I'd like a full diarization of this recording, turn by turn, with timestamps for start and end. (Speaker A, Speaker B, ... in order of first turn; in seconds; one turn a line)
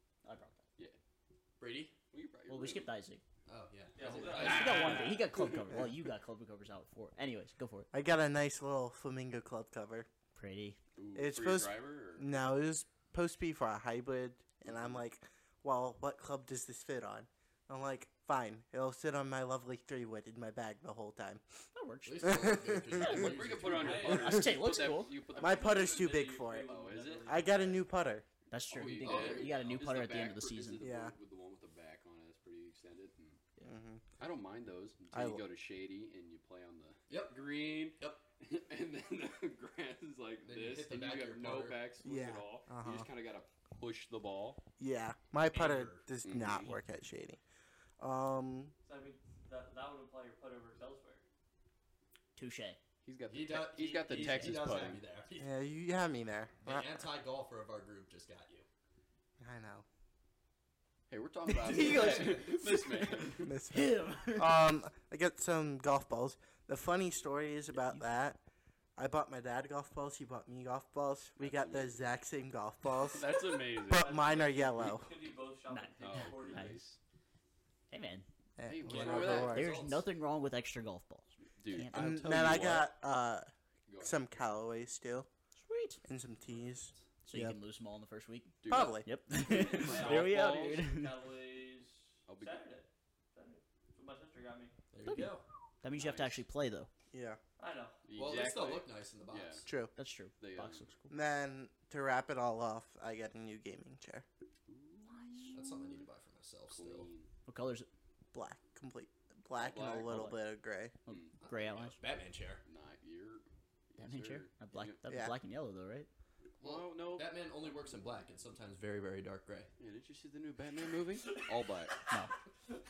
Speaker A: 0.2-0.6
Speaker B: 1.6-1.9
Speaker C: 2.1-2.9
Speaker A: 2.5-3.2
Speaker B: 3.5-5.8
Speaker D: 3.9-5.2
Speaker C: 4.0-5.0
Speaker A: 4.3-7.9
Speaker E: 7.9-10.1
Speaker A: 10.3-10.8
Speaker C: 11.0-12.3
Speaker E: 11.1-21.4
Speaker C: 14.6-15.0
Speaker A: 21.7-23.4
Speaker B: 22.0-24.2
Speaker E: 22.2-23.3
Speaker C: 23.0-25.9
Speaker D: 23.6-24.6
Speaker A: 23.9-25.1
Speaker D: 25.3-27.8
Speaker E: 25.3-28.2
Speaker C: 26.6-27.4
Speaker A: 28.5-30.8
Speaker C: 28.7-33.4
Speaker B: 28.9-29.8
Speaker E: 30.8-31.1
Speaker E: 33.6-34.0
Speaker C: 34.2-44.6
Speaker E: 35.1-35.4
Speaker B: 37.1-37.5
Speaker B: 40.4-41.8
Speaker E: 42.0-43.1
Speaker E: 44.8-47.4
Speaker B: 45.5-46.0
Speaker C: 46.2-46.7
Speaker E: 48.0-48.7
Speaker D: 48.8-51.2
Speaker A: 52.4-52.8
Speaker C: 53.0-55.0
Speaker B: 53.3-55.5
Speaker A: 54.2-54.7
Speaker E: 55.4-57.0
Speaker B: 56.6-58.6
Speaker E: 59.4-59.8
Speaker C: 61.1-63.6
Speaker A: 61.5-64.6
Speaker E: 63.4-68.4
Speaker E: 69.0-75.1
Speaker C: 71.4-72.2
Speaker C: 73.0-74.2
Speaker D: 73.9-76.8
Speaker A: 75.7-76.8
Speaker C: 76.0-77.0
Speaker A: 77.9-78.2
Speaker E: 78.6-79.7
Speaker C: 78.7-79.7
Speaker B: 78.8-80.0
Speaker A: 79.5-82.4
Speaker C: 81.4-82.9
Speaker E: 81.9-83.5
Speaker C: 83.9-84.2
Speaker E: 84.0-85.3
Speaker A: 85.6-86.0
Speaker E: 86.0-87.6
Speaker B: 86.5-87.0
Speaker A: 87.2-91.1
Speaker C: 88.6-90.7
Speaker E: 88.7-89.1
Speaker D: 89.4-94.7
Speaker C: 92.3-92.6
Speaker B: 94.9-95.4
Speaker A: 95.0-96.9
Speaker C: 96.0-96.4
Speaker E: 97.1-97.4
Speaker D: 97.6-98.0
Speaker C: 98.0-99.7
Speaker B: 98.2-99.7
Speaker E: 99.7-99.9
Speaker A: 100.0-101.1
Speaker C: 100.4-100.9
Speaker E: 101.1-104.2
Speaker C: 104.7-105.7
Speaker A: 105.1-105.6
Speaker B: 105.5-107.1
Speaker C: 106.7-107.3
Speaker A: 107.5-107.9
Speaker E: 108.3-110.9
Speaker C: 109.6-110.2
Speaker A: 110.0-110.4
Speaker A: 111.0-112.0
Speaker B: 111.4-112.6
Speaker C: 112.6-115.0
Speaker A: 114.0-116.1
Speaker E: 115.1-115.3
Speaker B: 116.6-119.7
Speaker C: 116.6-117.3
Speaker C: 119.8-122.0
Speaker D: 121.2-121.6